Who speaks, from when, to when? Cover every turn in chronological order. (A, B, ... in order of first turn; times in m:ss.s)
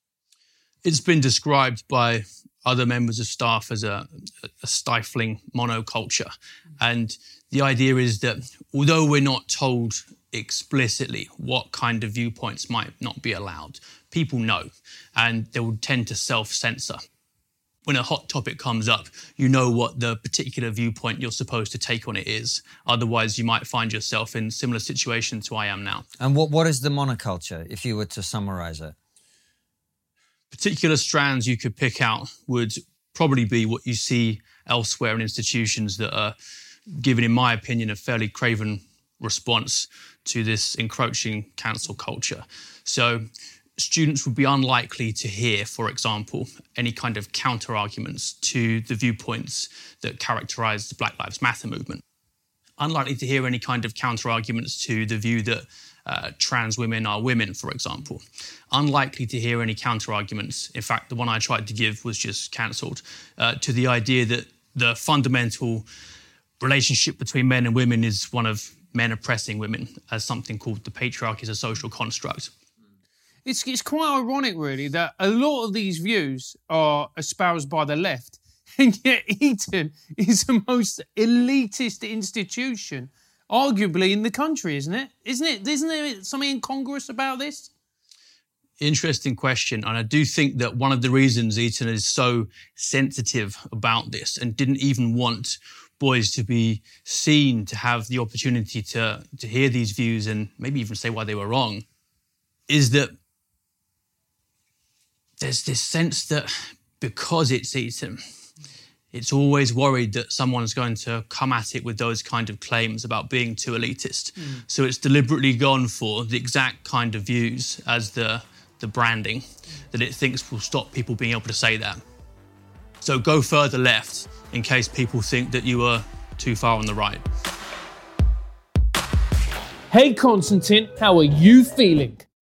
0:00.8-0:17.0 A
0:17.8-0:26.0 A
0:26.2-0:28.9 B
0:30.5-0:36.3 A
0:36.9-0:52.0 A
0:52.8-1:05.8 A
1:06.6-1:12.5 A
1:13.4-1:27.7 C
1:28.8-1:41.8 A
1:42.7-1:43.1 A
1:45.4-1:48.2 A
1:49.1-2:02.0 A
2:03.0-2:07.2 A
2:09.9-2:12.2 C